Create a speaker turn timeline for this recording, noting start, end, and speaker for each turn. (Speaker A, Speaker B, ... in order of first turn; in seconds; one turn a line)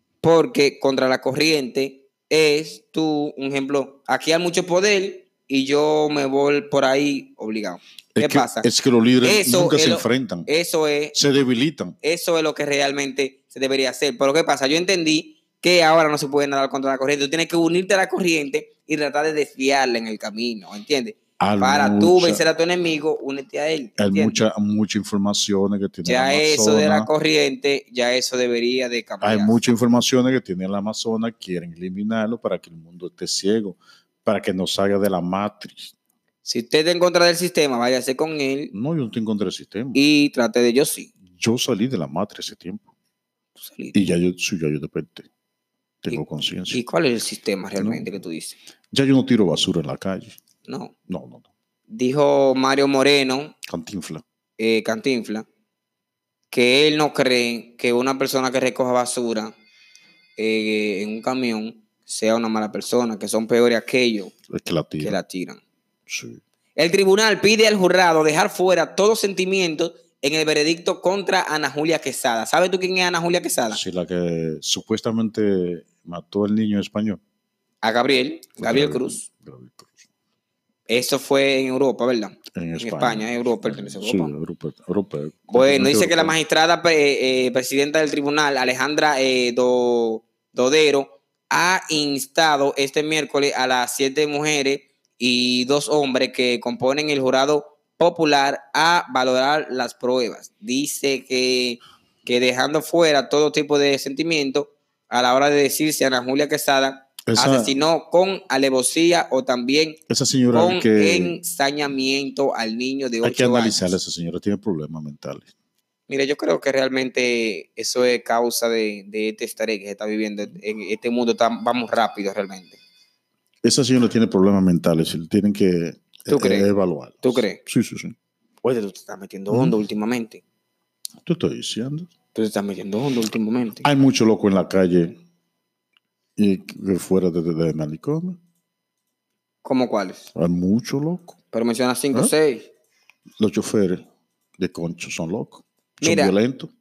Speaker A: 0.2-8.7
Speaker B: 8.2-10.5
Speaker A: 9.2-11.2
Speaker B: 11.1-12.0
Speaker A: 12.0-24.4
Speaker B: 21.4-22.4
Speaker B: 24.0-27.1
Speaker A: 26.1-29.6
Speaker B: 29.2-35.9
Speaker A: 36.4-38.7
Speaker B: 38.7-40.0
Speaker A: 40.0-41.1
Speaker B: 41.3-42.9
Speaker A: 43.6-44.0
Speaker B: 43.9-45.3
Speaker B: 46.0-46.8
Speaker A: 46.1-48.6
Speaker B: 47.8-48.2
Speaker B: 48.9-50.4
Speaker A: 50.7-50.9
Speaker B: 51.1-51.5
Speaker A: 51.9-53.5
Speaker B: 53.7-54.2
Speaker A: 54.6-55.5
Speaker A: 56.5-59.5
Speaker A: 60.4-64.3
Speaker B: 64.5-65.2
Speaker A: 65.0-65.6
Speaker B: 66.1-66.4
Speaker A: 66.8-73.8
Speaker B: 73.7-77.2
Speaker A: 77.8-79.2
Speaker B: 78.6-80.0
Speaker A: 80.9-84.3
Speaker B: 82.5-86.4
Speaker A: 85.5-110.0
Speaker B: 107.3-107.7
Speaker B: 110.1-111.4
Speaker A: 110.5-114.0
Speaker B: 113.2-115.5
Speaker A: 116.1-122.8
Speaker B: 123.6-128.2
Speaker A: 126.3-126.7
Speaker A: 127.2-127.6
Speaker A: 128.6-130.4
Speaker B: 129.5-129.8
Speaker B: 131.2-132.1
Speaker A: 132.3-133.9
Speaker B: 133.8-135.2
Speaker B: 136.4-138.4
Speaker A: 139.6-140.3
Speaker B: 140.3-141.4
Speaker A: 141.5-142.7
Speaker B: 143.4-144.0
Speaker B: 144.6-146.7
Speaker A: 146.0-146.3